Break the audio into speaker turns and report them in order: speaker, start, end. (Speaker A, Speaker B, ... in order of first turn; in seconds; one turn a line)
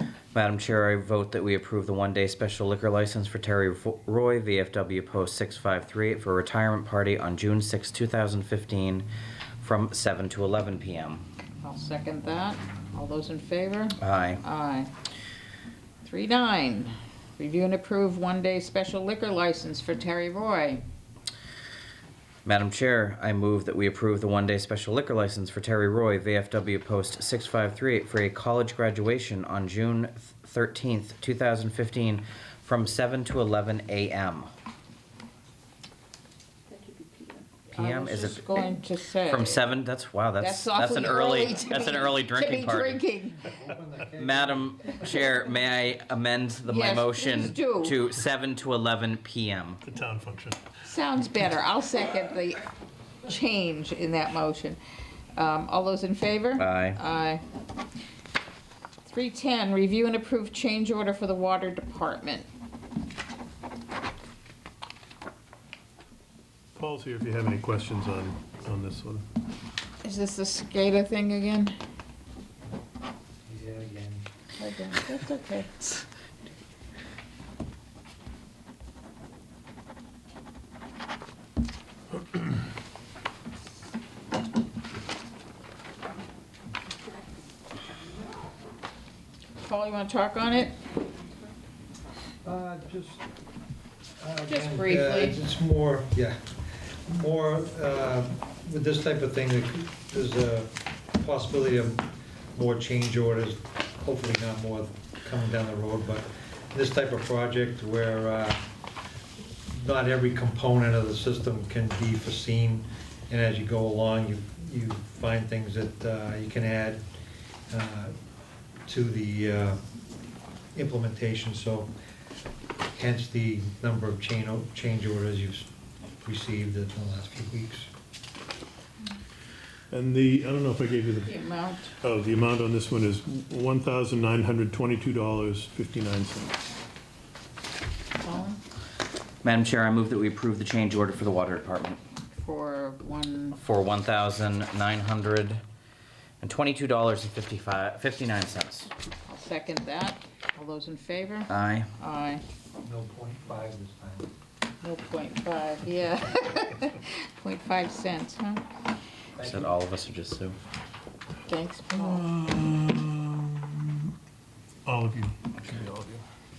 Speaker A: 0.3-9.1
Speaker A: 9.6-11.2
Speaker B: 11.6-14.9
Speaker A: 14.0-14.4
Speaker B: 16.0-20.8
Speaker A: 22.4-34.5
Speaker B: 37.7-39.6
Speaker A: 37.7-38.6
Speaker A: 39.3-43.0
Speaker B: 40.4-43.5
Speaker C: 43.4-44.9
Speaker A: 44.2-49.8
Speaker B: 46.6-48.0
Speaker D: 49.8-50.6
Speaker B: 50.8-52.7
Speaker B: 53.2-54.8
Speaker B: 55.3-57.4
Speaker A: 56.6-57.0
Speaker B: 59.0-62.5
Speaker D: 66.7-69.2
Speaker B: 70.0-71.8
Speaker C: 73.5-74.2
Speaker B: 74.6-75.7
Speaker B: 89.6-90.7
Speaker C: 92.4-93.2
Speaker C: 94.2-96.4
Speaker B: 94.5-95.4
Speaker C: 97.1-108.6
Speaker C: 109.7-117.0
Speaker C: 117.7-118.1
Speaker C: 118.8-119.8
Speaker C: 120.7-121.9
Speaker C: 122.9-125.7
Speaker C: 126.2-127.9
Speaker D: 129.9-131.3
Speaker B: 131.2-131.9
Speaker D: 132.0-136.6
Speaker B: 138.2-138.6
Speaker A: 139.4-142.0
Speaker B: 142.3-143.6
Speaker A: 143.6-145.6
Speaker A: 146.4-148.9
Speaker B: 149.3-152.4
Speaker A: 151.5-151.9
Speaker C: 152.8-154.3
Speaker B: 154.8-158.6
Speaker C: 159.4-159.8
Speaker A: 159.4-160.6
Speaker B: 161.5-162.2
Speaker D: 161.9-164.2
Speaker D: 164.8-166.2